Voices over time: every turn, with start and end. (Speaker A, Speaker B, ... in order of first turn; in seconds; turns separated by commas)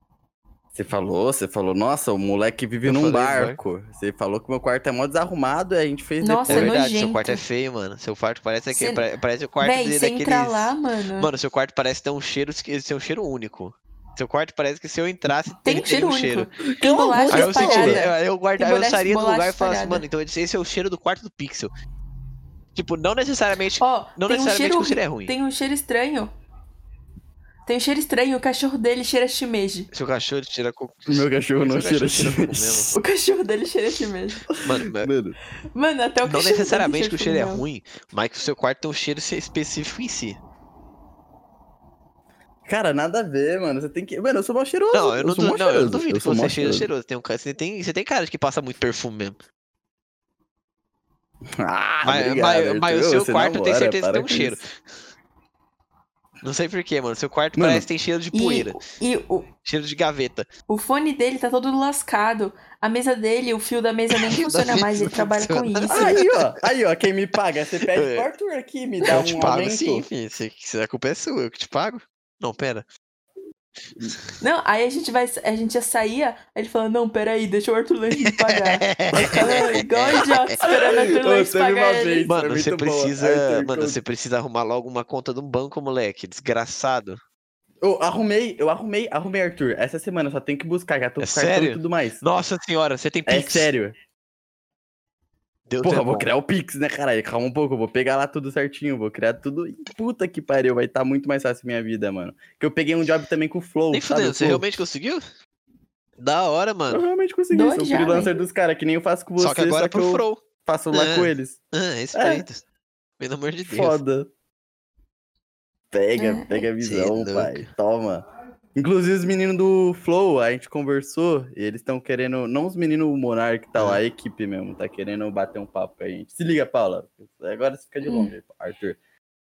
Speaker A: 0.7-6.8, Speaker B: 2.8-3.6, Speaker C: 6.2-7.4, Speaker B: 6.5-16.5, Speaker C: 8.7-9.1, Speaker C: 9.6-11.3, Speaker C: 15.6-20.0, Speaker A: 16.7-18.1, Speaker B: 17.3-21.7, Speaker B: 22.7-25.3, Speaker C: 23.8-26.3, Speaker C: 27.6-29.9, Speaker B: 29.9-32.9, Speaker A: 31.1-32.9, Speaker C: 32.9-34.5, Speaker A: 34.5-35.4, Speaker B: 34.6-35.1, Speaker C: 35.7-37.6, Speaker B: 36.2-40.4, Speaker A: 42.6-46.9, Speaker B: 44.9-49.4, Speaker A: 51.5-54.6, Speaker B: 52.0-54.7, Speaker B: 56.4-58.8, Speaker A: 57.5-57.9, Speaker C: 58.3-59.5, Speaker B: 59.6-60.5, Speaker C: 60.7-66.2, Speaker B: 64.2-66.6, Speaker A: 65.9-70.0, Speaker B: 67.9-68.3, Speaker B: 69.1-72.8, Speaker C: 74.4-82.3, Speaker B: 78.2-80.6, Speaker A: 79.2-79.7, Speaker A: 80.6-84.0, Speaker B: 82.2-87.2, Speaker A: 87.8-92.2, Speaker B: 91.2-93.7, Speaker A: 93.3-94.0, Speaker B: 95.7-96.3, Speaker A: 95.8-104.8, Speaker B: 103.9-105.2, Speaker B: 106.2-107.0, Speaker A: 106.9-111.6, Speaker C: 107.5-108.3, Speaker B: 109.4-112.6, Speaker A: 112.1-112.4, Speaker B: 113.2-114.0, Speaker A: 113.6-114.3, Speaker A: 115.9-129.0, Speaker C: 116.2-116.7, Speaker B: 116.8-117.7, Speaker B: 123.8-124.0, Speaker C: 128.0-128.3